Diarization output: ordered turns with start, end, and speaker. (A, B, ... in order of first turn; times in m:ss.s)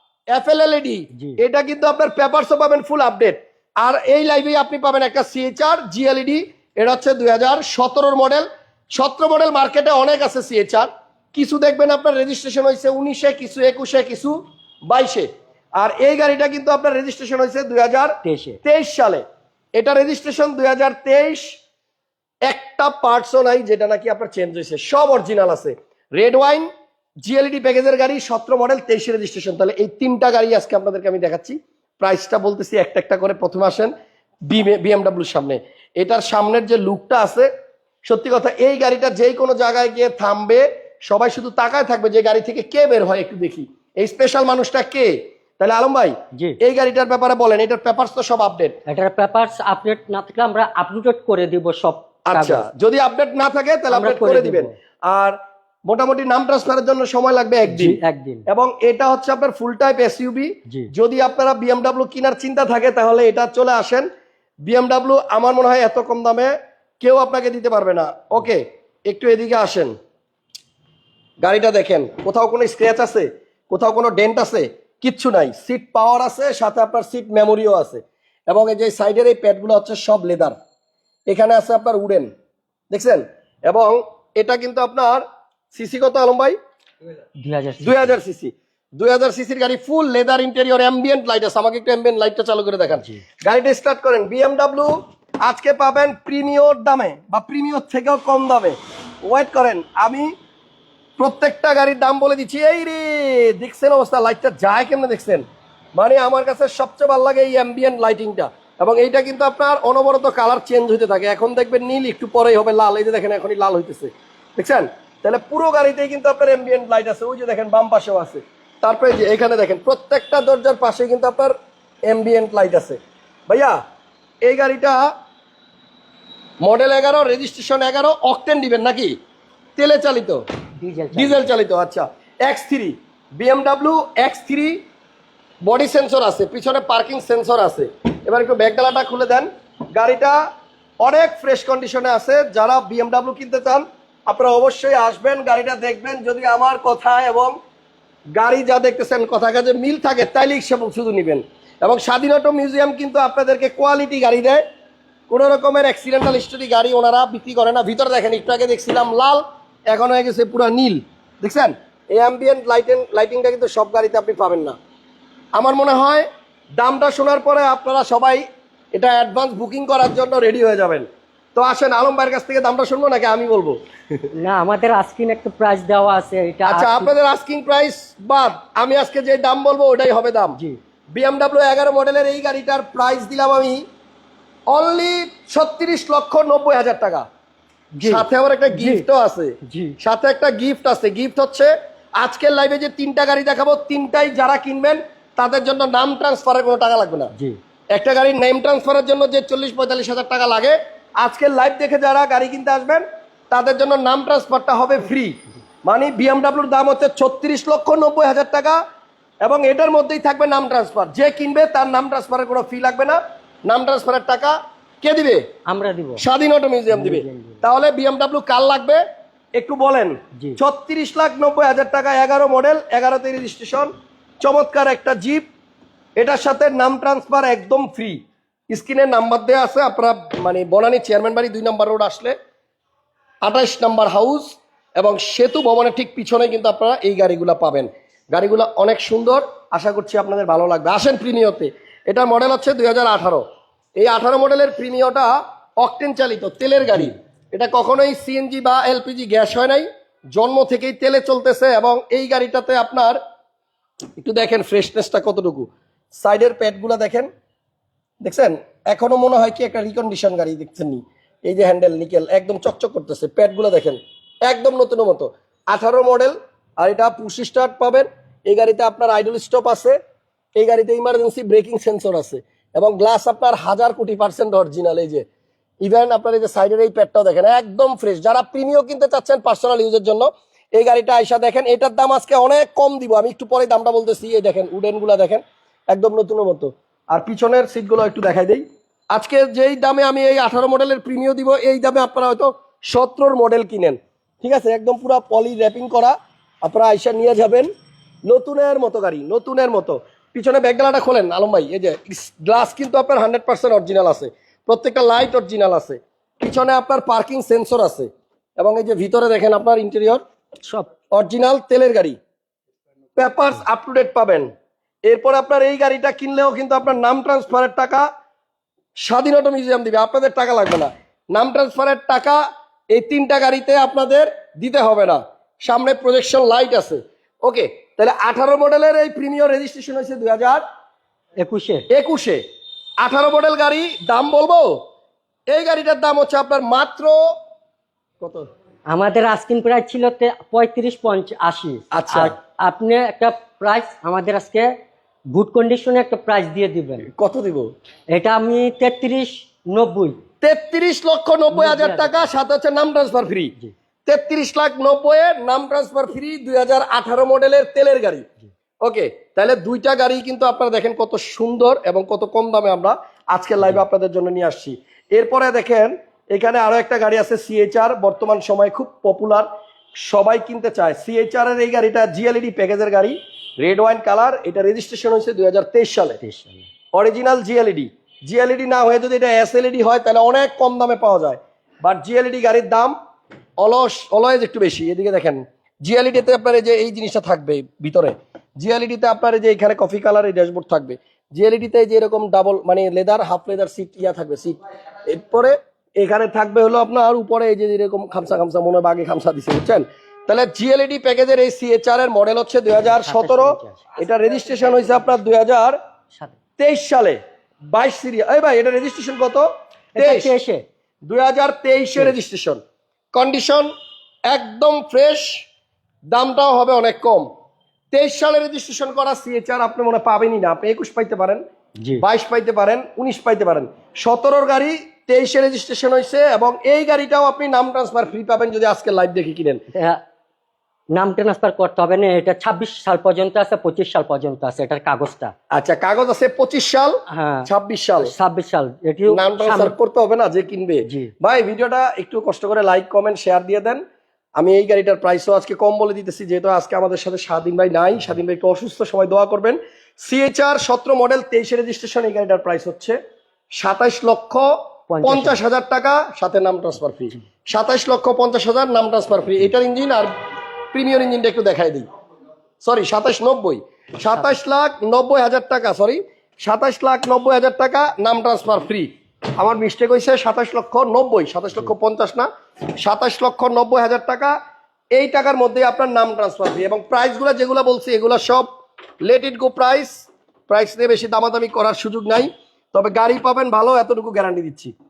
0:00.3-0:14.4 A
0:01.1-0:01.4 B
0:14.9-0:15.3 A
0:15.8-0:19.2 A
0:18.2-0:18.6 B
0:19.8-0:21.6 A
0:22.4-0:26.7 A
0:27.2-0:33.9 A
0:34.5-0:37.5 A
0:38.0-0:48.8 A
0:46.3-0:46.6 B
0:48.9-0:52.6 B
0:52.3-0:55.3 A
0:53.9-0:54.7 B
0:55.9-1:04.1 A
0:57.6-0:58.4 B
1:04.6-1:09.9 A
1:11.4-1:20.6 A
1:21.3-1:22.3 A
1:22.9-1:26.5 A
1:27.4-1:28.1 B
1:27.8-1:40.3 A
1:32.9-1:33.2 B
1:41.2-1:45.4 A
1:45.9-2:01.5 A
2:02.1-2:03.8 A
2:04.4-2:05.1 A
2:06.6-2:09.2 A
2:09.8-2:10.4 A
2:10.8-2:11.5 B
2:11.1-2:14.8 A
2:15.6-2:20.4 A
2:21.0-2:27.6 A
2:28.3-2:34.6 A
2:35.3-2:44.8 A
2:45.6-2:46.3 A
2:46.8-2:53.8 A
2:54.3-2:57.1 B
2:56.7-3:00.6 A
3:01.1-3:03.8 A
3:04.7-3:07.2 A
3:07.9-3:09.0 B
3:08.0-3:17.3 A
3:09.6-3:10.0 B
3:17.9-3:28.8 A
3:29.4-3:35.4 A
3:35.7-3:36.2 B
3:36.2-3:39.0 A
3:36.9-3:37.6 B
3:39.6-3:43.9 A
3:44.4-3:45.4 A
3:46.2-3:48.2 A
3:48.7-3:52.3 A
3:53.4-4:03.4 A
4:04.0-4:13.2 A
4:14.2-4:15.7 A
4:16.2-4:17.3 A
4:18.2-4:30.0 A
4:30.6-4:35.2 A
4:35.8-4:57.7 A
4:58.3-5:10.2 A
5:11.1-5:12.2 A
5:13.2-5:14.5 A
5:15.0-5:18.0 A
5:19.0-5:30.6 A
5:31.4-5:31.9 B
5:31.9-5:32.4 A
5:33.0-5:34.8 A
5:35.5-5:37.2 A
5:38.2-5:38.4 A
5:38.9-5:44.7 B
5:41.9-5:42.3 A
5:45.3-5:47.1 B
5:47.1-5:47.7 A
5:48.1-5:50.2 B
5:50.4-5:53.5 A
5:51.5-5:52.2 B
5:54.0-5:58.2 A
5:58.8-6:09.5 A
6:10.0-6:16.2 A
6:16.2-6:16.7 B
6:16.9-6:22.9 A
6:23.6-6:34.6 A
6:35.1-6:45.8 A
6:42.9-6:44.0 B
6:46.6-6:47.2 A
6:47.7-6:50.3 A
6:50.0-6:50.6 B
6:51.1-6:52.6 A
6:53.1-6:53.7 A
6:54.3-6:55.4 A
6:56.1-6:57.2 A
6:57.9-7:01.4 A
7:02.0-7:09.6 A
7:09.7-7:10.0 B
7:10.9-7:15.3 B
7:15.5-7:18.1 A
7:17.1-7:17.5 B
7:18.0-7:19.7 B
7:19.1-7:23.8 A
7:24.4-7:33.0 A
7:33.6-7:34.5 A
7:34.9-7:35.4 B
7:35.0-7:40.1 A
7:40.7-7:41.9 A
7:42.6-7:52.3 A
7:52.8-7:54.4 A
7:54.9-7:58.5 A
7:59.0-8:04.7 A